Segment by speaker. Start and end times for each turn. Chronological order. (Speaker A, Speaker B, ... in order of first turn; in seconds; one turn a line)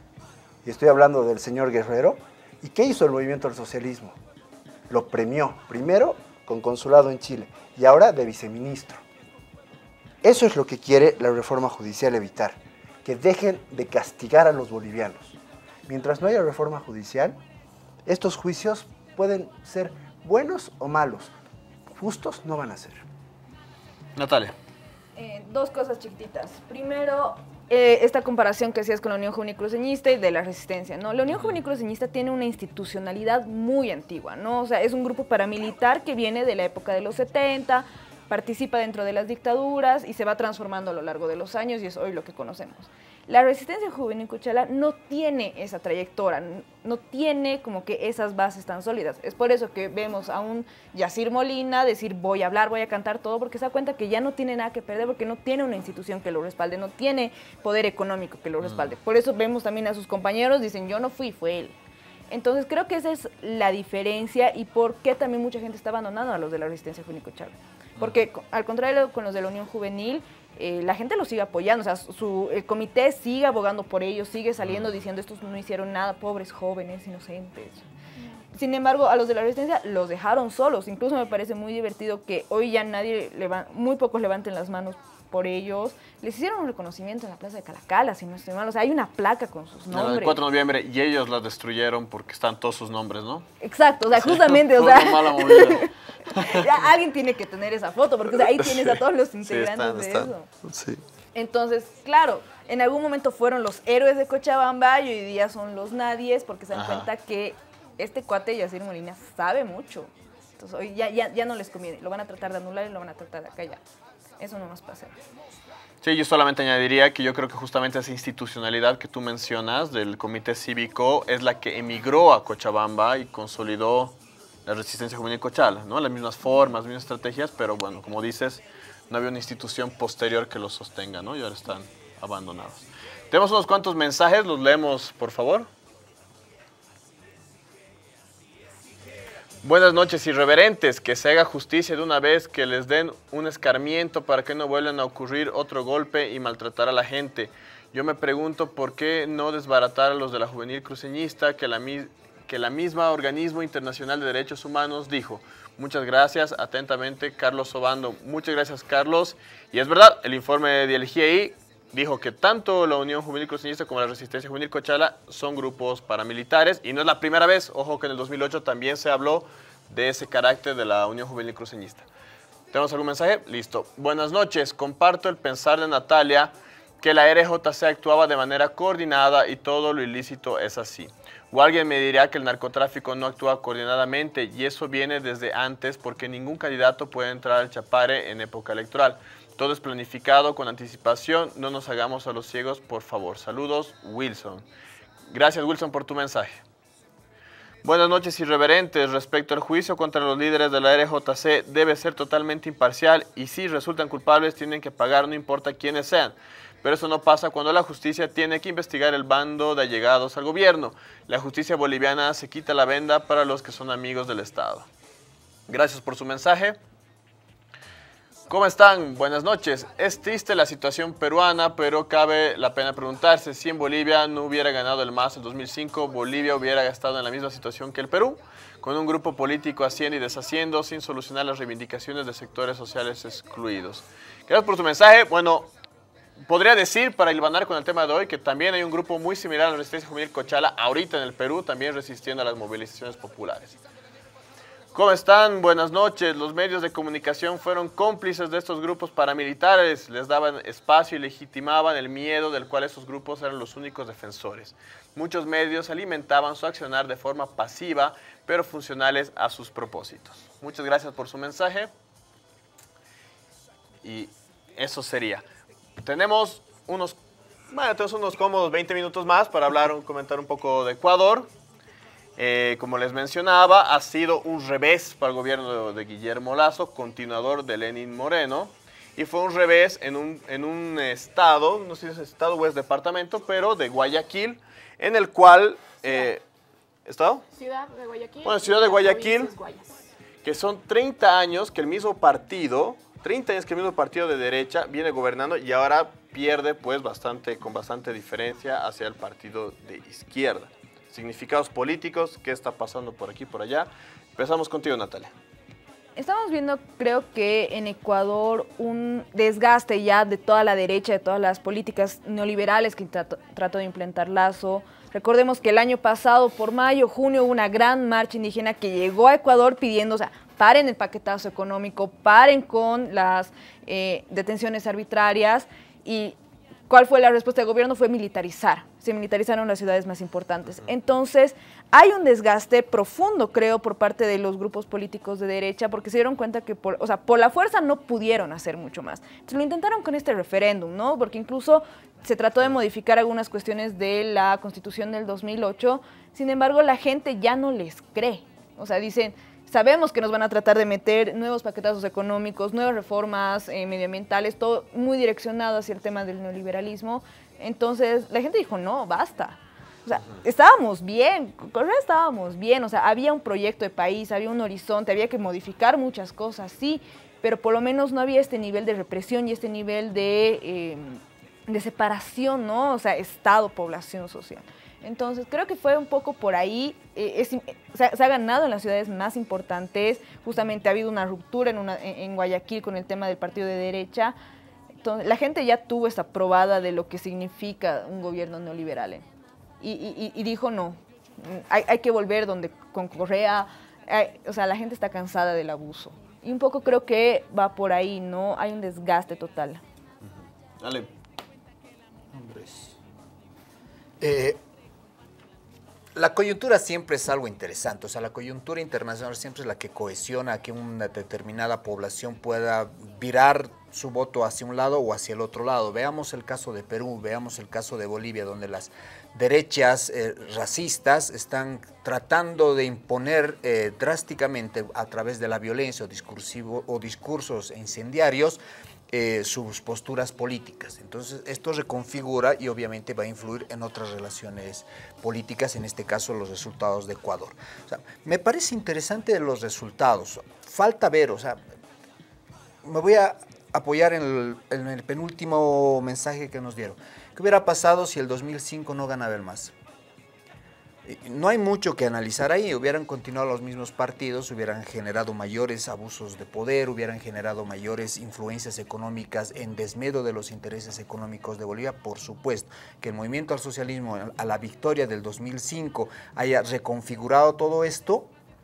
Speaker A: 0.6-4.2
Speaker A: 4.9-9.0
Speaker A: 10.2-17.4
Speaker A: 18.1-21.3
Speaker A: 21.9-23.0
Speaker B: 24.1-24.5
Speaker C: 25.1-61.8
Speaker B: 58.6-58.9
Speaker C: 62.3-77.8
Speaker C: 78.5-90.4
Speaker B: 89.9-93.5
Speaker C: 93.6-100.5
Speaker B: 94.1-96.6
Speaker B: 98.5-101.0
Speaker C: 101.3-113.8
Speaker B: 106.7-107.1
Speaker C: 114.4-115.2
Speaker B: 116.0-135.7
Speaker B: 139.6-172.1
Speaker B: 172.7-194.6
Speaker B: 195.3-196.6
Speaker B: 197.8-214.9
Speaker B: 215.7-216.8
Speaker B: 218.5-235.7
Speaker B: 236.5-243.8
Speaker B: 244.9-261.9
Speaker B: 264.0-265.4
Speaker B: 266.0-267.2
Speaker B: 267.7-271.5
Speaker B: 272.4-286.4
Speaker B: 287.1-287.4
Speaker D: 287.5-289.9
Speaker B: 288.4-289.5
Speaker B: 290.4-305.3
Speaker C: 306.1-326.4
Speaker C: 326.9-384.3
Speaker C: 385.0-389.2
Speaker C: 389.8-399.8
Speaker B: 400.2-401.1
Speaker E: 402.3-403.0
Speaker E: 404.2-404.6
Speaker E: 406.1-441.6
Speaker E: 442.8-449.7
Speaker E: 451.0-468.3